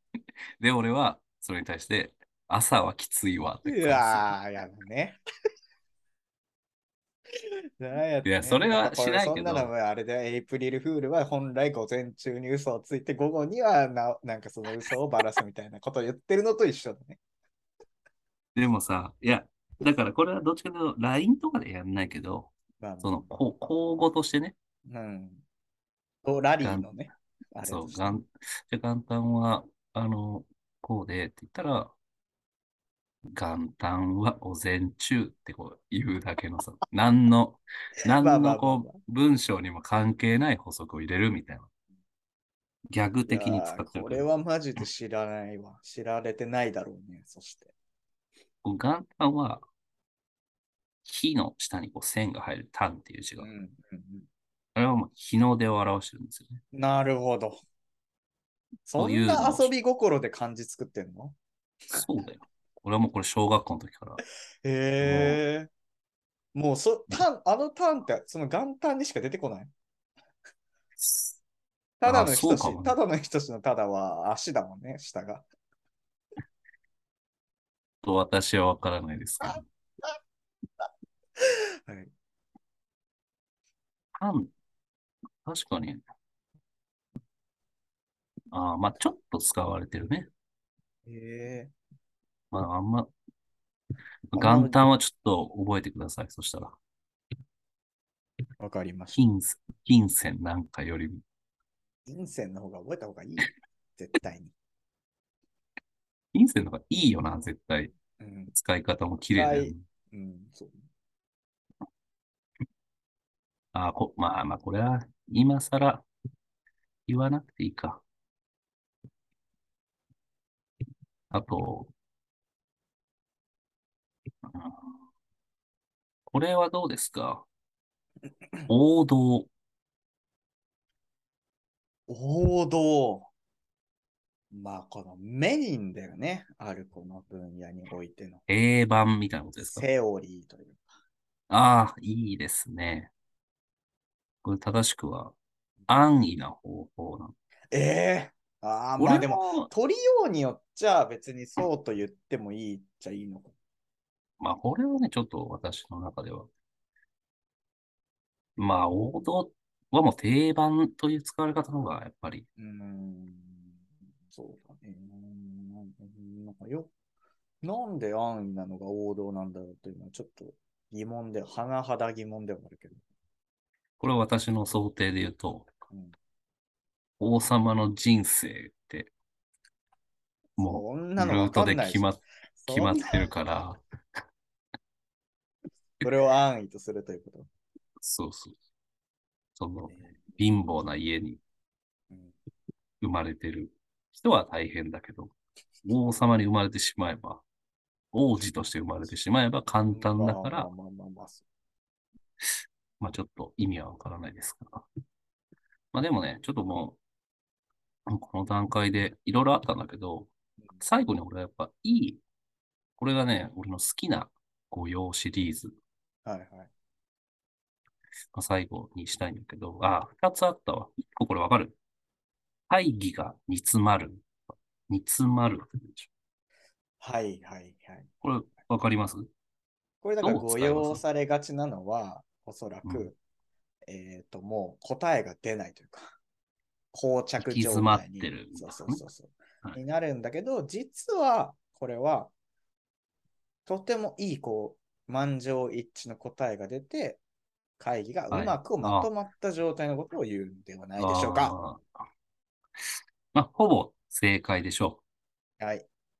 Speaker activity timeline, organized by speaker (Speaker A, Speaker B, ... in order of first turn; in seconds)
Speaker A: 0.6-4.3, 8.2-9.7, 18.5-24.6, 26.6-26.9, 27.6-31.9, 33.3-41.7, 42.9-44.3, 48.6-49.6, 51.0-53.5, 54.7-56.6, 59.0-59.7, 61.9-64.2, 65.0-65.4, 71.0-71.3, 72.0-73.0, 78.0-79.6, 84.1-84.5, 85.4-86.0, 88.5-90.3, 92.5-93.1, 94.3-96.8, 99.1-101.2, 106.3-107.9, 108.5-109.8, 113.7-116.0, 117.1-118.0, 121.3-121.9, 124.4-124.8, 126.3-127.5, 128.7-129.5, 138.5-139.9, 141.5-143.1, 144.4-145.3, 145.9-147.3, 149.0-149.7, 154.4-156.5, 158.6-162.5, 174.0-175.7, 177.2-179.1, 180.6-183.8, 188.0-188.6, 189.6-191.4, 193.0-197.4, 198.1-200.7, 203.0-204.9, 205.9-207.0, 208.1-210.3, 210.8-212.2, 213.0-215.7, 218.3-221.8, 222.7-226.1, 228.2-229.3, 230.2-231.0, 237.4-239.0, 248.3-249.1, 251.0-252.0, 253.3-255.0
Speaker B: 3.6-5.2, 7.4-17.2, 22.8-23.3, 24.9-25.4, 26.2-28.2, 38.1-39.0, 43.3-47.7, 53.4-54.3, 56.7-57.6, 58.9-61.4, 64.6-65.7, 66.5-69.7, 72.0-75.5, 79.4-80.1, 81.4-82.1, 91.0-91.7, 94.3-94.9, 98.6-99.2, 102.0-104.5, 108.2-108.5, 109.3-110.8, 132.1-133.3, 134.5-138.4, 139.6-140.8, 147.7-153.5, 162.6-163.8, 164.3-166.9, 167.6-173.0, 175.9-176.2, 180.6-183.3, 186.0-187.5, 189.9-190.2, 199.9-201.4, 216.2-216.7, 227.0-228.1, 230.0-233.2, 233.9-236.1, 236.9-242.3, 243.7-247.2, 247.8-251.5, 255.6-255.9